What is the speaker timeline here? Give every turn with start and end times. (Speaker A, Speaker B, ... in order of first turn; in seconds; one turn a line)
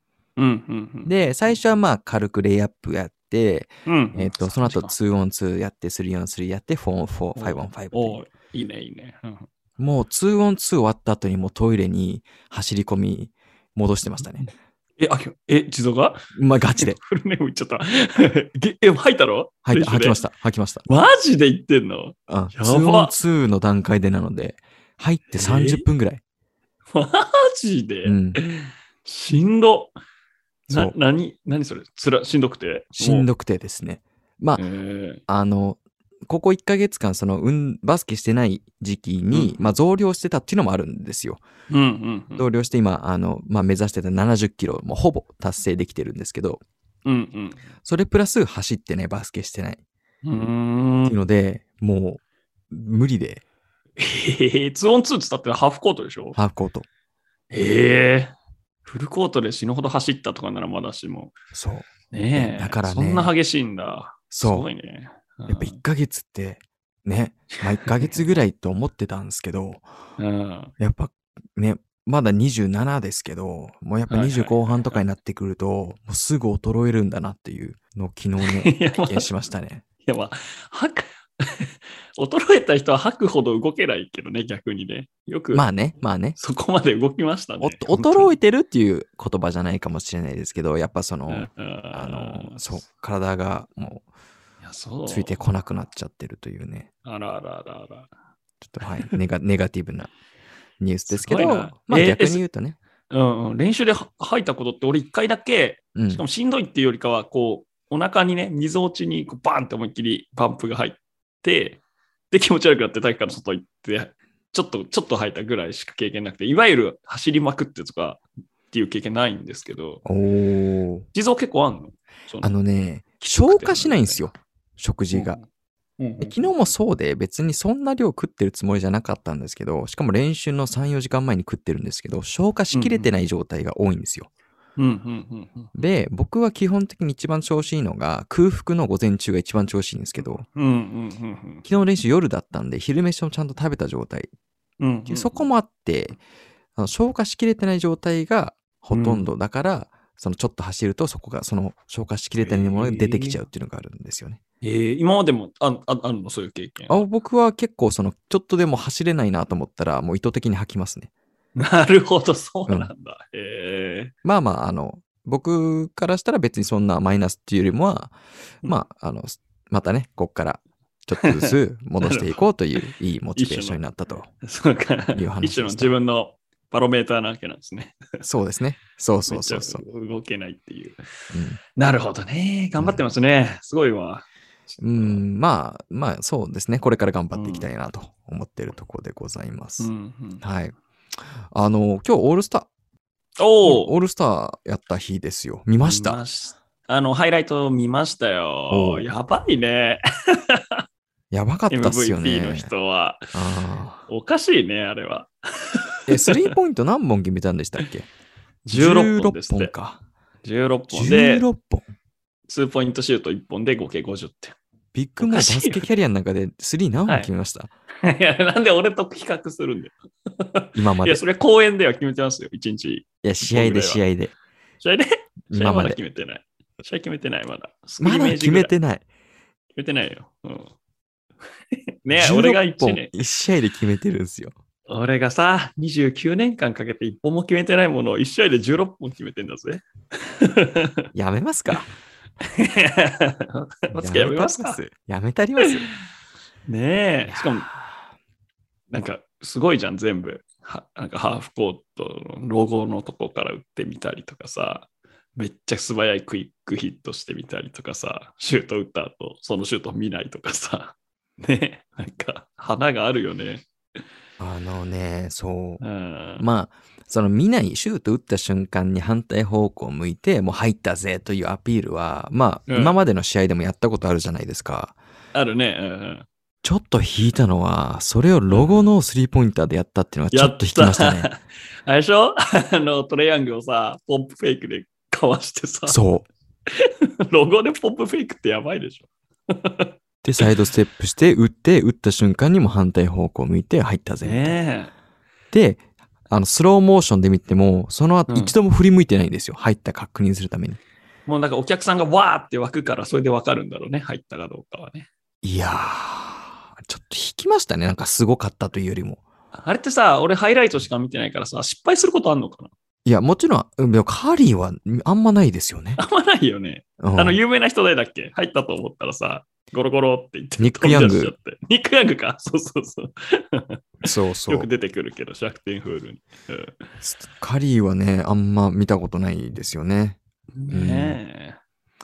Speaker A: 0.4-1.1
Speaker B: 1.1-8.2
Speaker A: 3.9-4.9
Speaker A: 7.3-9.5
Speaker B: 9.8-14.5
Speaker A: 14.4-20.2
Speaker B: 16.4-17.0
Speaker B: 19.6-20.9
Speaker A: 20.9-23.1
Speaker B: 22.3-26.2
Speaker A: 25.4-25.9
Speaker A: 26.9-29.9
Speaker B: 28.1-28.4
Speaker B: 30.7-30.9
Speaker A: 30.7-33.3
Speaker B: 33.0-34.6
Speaker A: 34.6-35.2
Speaker B: 35.3-41.4
Speaker A: 39.3-39.7
Speaker A: 41.7-42.5
Speaker B: 42.4-46.6
Speaker A: 47.0-47.6
Speaker B: 47.9-49.8
Speaker A: 50.2-51.2
Speaker B: 51.1-53.4
Speaker A: 54.0-56.4
Speaker B: 56.4-56.9
Speaker A: 57.5-61.4
Speaker B: 61.5-63.3
Speaker A: 62.1-65.8
Speaker B: 64.3-64.7
Speaker B: 65.5-69.9
Speaker A: 67.5-68.1
Speaker A: 70.2-70.7
Speaker B: 70.8-79.8
Speaker A: 74.1-75.0
Speaker A: 78.4-79.3
Speaker A: 80.1-85.7
Speaker B: 85.5-86.4
Speaker A: 86.4-88.3
Speaker B: 87.6-94.1
Speaker A: 91.3-92.8
Speaker A: 94.6-95.4
Speaker B: 95.1-96.9
Speaker A: 97.0-98.1
Speaker B: 98.6-100.1
Speaker B: 100.8-102.8
Speaker A: 101.1-102.4
Speaker A: 103.1-120.0
Speaker B: 106.0-106.2
Speaker B: 120.0-121.1
Speaker A: 121.1-122.5
Speaker B: 122.4-125.4
Speaker A: 123.3-124.3
Speaker A: 125.1-125.5
Speaker A: 126.0-126.5
Speaker B: 126.2-134.3
Speaker A: 132.7-133.1
Speaker A: 134.8-135.7
Speaker B: 135.8-140.5
Speaker A: 140.5-141.7
Speaker B: 141.7-144.3
Speaker A: 144.8-145.5
Speaker B: 145.1-146.2
Speaker B: 146.8-154.4
Speaker A: 148.9-149.3
Speaker A: 152.4-153.4
Speaker A: 154.6-157.0
Speaker B: 156.9-161.1
Speaker A: 161.6-164.1
Speaker B: 164.2-174.3
Speaker A: 171.2-173.8
Speaker A: 174.4-178.2
Speaker B: 175.1-175.9
Speaker B: 178.2-179.8
Speaker A: 179.3-181.0
Speaker B: 181.3-181.6
Speaker A: 181.8-185.2
Speaker B: 184.8-192.7
Speaker A: 187.3-187.7
Speaker A: 189.8-190.4
Speaker A: 193.4-193.9
Speaker B: 193.6-196.2
Speaker A: 195.8-200.8
Speaker B: 198.7-199.1
Speaker B: 201.3-202.7
Speaker A: 201.7-203.3
Speaker B: 203.3-204.0
Speaker A: 204.1-206.5
Speaker B: 206.1-208.1
Speaker A: 208.7-209.7
Speaker B: 208.7-210.0
Speaker A: 210.4-211.4
Speaker B: 210.9-211.9
Speaker A: 212.5-214.6
Speaker B: 214.9-217.7
Speaker A: 215.2-215.9
Speaker A: 218.0-224.0
Speaker B: 220.8-221.2
Speaker B: 223.2-224.3
Speaker A: 224.8-228.7
Speaker B: 225.5-226.0
Speaker B: 228.0-229.0
Speaker A: 229.8-230.7
Speaker A: 232.0-233.1
Speaker B: 232.2-234.5
Speaker A: 234.9-241.1
Speaker B: 241.1-241.9
Speaker A: 242.4-244.8
Speaker B: 243.9-245.9
Speaker A: 246.7-247.7
Speaker A: 248.9-263.7
Speaker B: 264.4-265.8
Speaker A: 265.8-266.4
Speaker B: 266.4-275.0
Speaker A: 272.7-273.0
Speaker A: 275.3-276.3
Speaker B: 276.6-281.3
Speaker A: 278.5-278.9
Speaker A: 280.3-286.0
Speaker B: 285.9-286.3
Speaker A: 286.7-290.5
Speaker B: 290.2-294.5
Speaker A: 294.2-294.9
Speaker B: 295.5-300.8
Speaker A: 298.3-298.6
Speaker A: 301.3-305.1
Speaker B: 305.4-309.2
Speaker A: 309.5-312.7
Speaker B: 313.1-316.0
Speaker A: 316.0-326.8
Speaker B: 317.0-317.4
Speaker B: 320.6-321.3
Speaker B: 324.0-324.7
Speaker B: 327.0-330.2
Speaker A: 330.6-331.6
Speaker B: 330.7-331.2